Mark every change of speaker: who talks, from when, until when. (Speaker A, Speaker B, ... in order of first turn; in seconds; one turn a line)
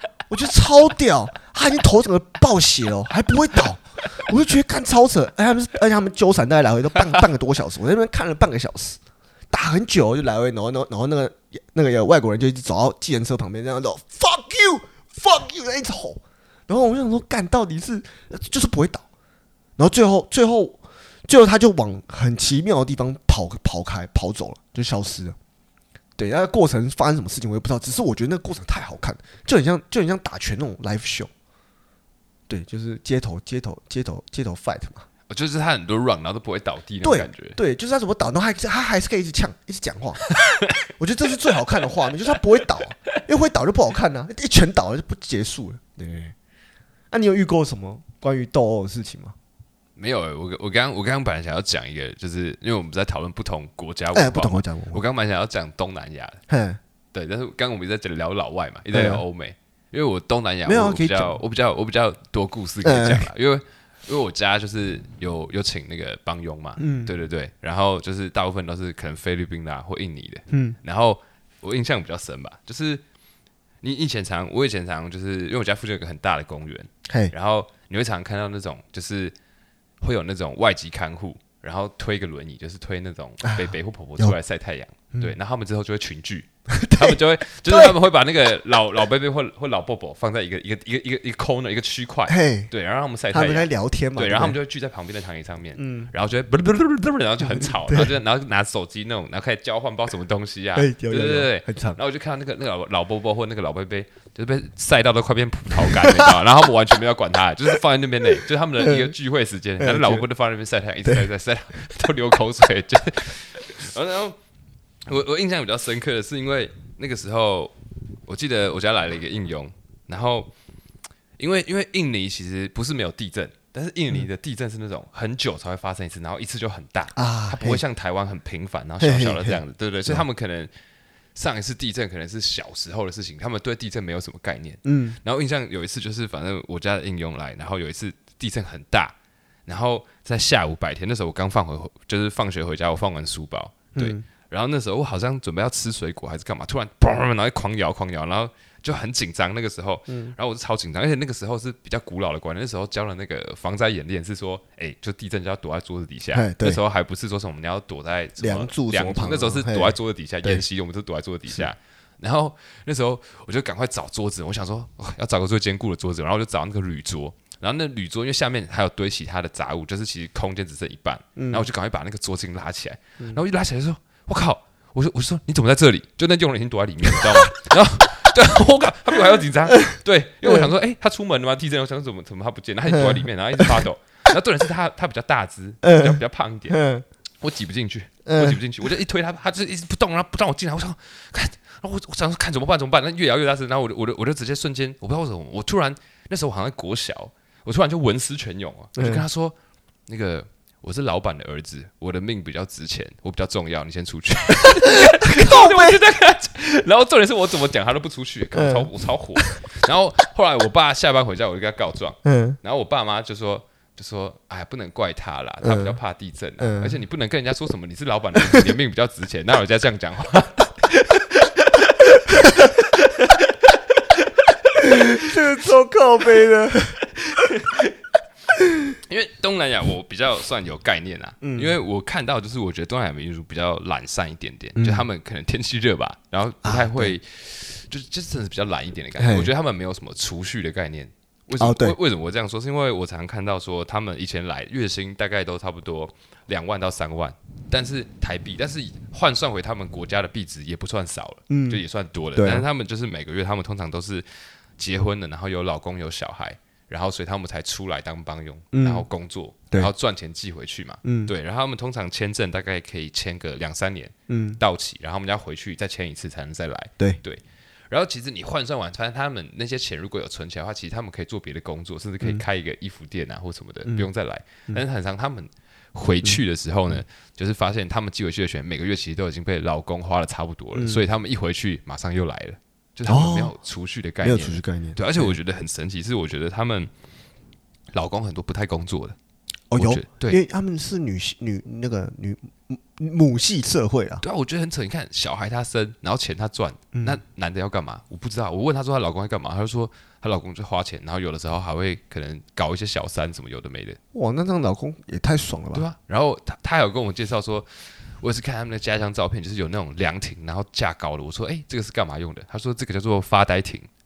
Speaker A: 0.3-9.0
Speaker A: 9.5-19.1
Speaker A: 19.8-25.4
Speaker A: 26.2-31.3
Speaker A: 32.5-35.0
Speaker B: 35.3-37.6
Speaker A: 37.0-40.2
Speaker A: 40.9-46.3
Speaker A: 47.1-49.3
Speaker B: 50.0-56.4
Speaker A: 54.1-55.0
Speaker A: 56.5-56.8
Speaker B: 57.1-73.0
Speaker A: 58.9-59.2
Speaker A: 60.6-61.3
Speaker A: 62.8-63.2
Speaker A: 66.8-67.1
Speaker A: 70.5-70.8
Speaker B: 73.8-79.3
Speaker A: 77.1-77.3
Speaker B: 80.0-114.4
Speaker A: 83.4-84.4
Speaker A: 86.7-87.9
Speaker A: 92.3-92.7
Speaker A: 93.3-94.5
Speaker A: 95.8-96.1
Speaker A: 97.4-98.1
Speaker A: 100.8-102.0
Speaker A: 105.8-106.4
Speaker A: 108.8-109.1
Speaker A: 109.8-110.2
Speaker B: 115.0-117.7
Speaker B: 118.3-120.5
Speaker B: 121.4-130.7
Speaker A: 127.1-127.8
Speaker A: 129.0-130.2
Speaker B: 131.3-139.1
Speaker A: 134.8-135.2
Speaker B: 139.7-186.8
Speaker A: 143.9-144.2
Speaker A: 150.1-150.3
Speaker A: 156.3-156.8
Speaker A: 158.4-160.6
Speaker A: 171.3-171.7
Speaker A: 177.1-177.5
Speaker A: 179.7-180.7
Speaker A: 182.9-183.8
Speaker A: 185.8-187.0
Speaker B: 187.4-199.5
Speaker A: 188.2-188.6
Speaker A: 198.9-199.2
Speaker B: 200.1-223.3
Speaker A: 204.6-206.0
Speaker A: 208.5-208.9
Speaker A: 212.2-212.6
Speaker A: 215.6-216.0
Speaker A: 216.6-216.9
Speaker B: 224.7-225.3
Speaker A: 224.7-227.1
Speaker B: 227.3-227.9
Speaker A: 228.6-228.9
Speaker B: 229.1-254.2
Speaker A: 231.4-231.8
Speaker A: 234.8-235.1
Speaker A: 236.6-237.1
Speaker A: 239.2-239.5
Speaker A: 241.6-242.0
Speaker A: 251.5-251.8
Speaker A: 252.3-252.6
Speaker B: 254.8-286.9
Speaker A: 258.7-259.1
Speaker A: 261.0-261.3
Speaker A: 264.3-264.6
Speaker A: 280.7-281.0
Speaker A: 283.1-283.5
Speaker A: 284.2-285.4
Speaker B: 287.9-289.1
Speaker A: 289.7-294.2
Speaker B: 289.8-290.4
Speaker B: 294.2-304.0
Speaker A: 296.9-297.2
Speaker A: 304.1-305.9
Speaker B: 305.7-313.9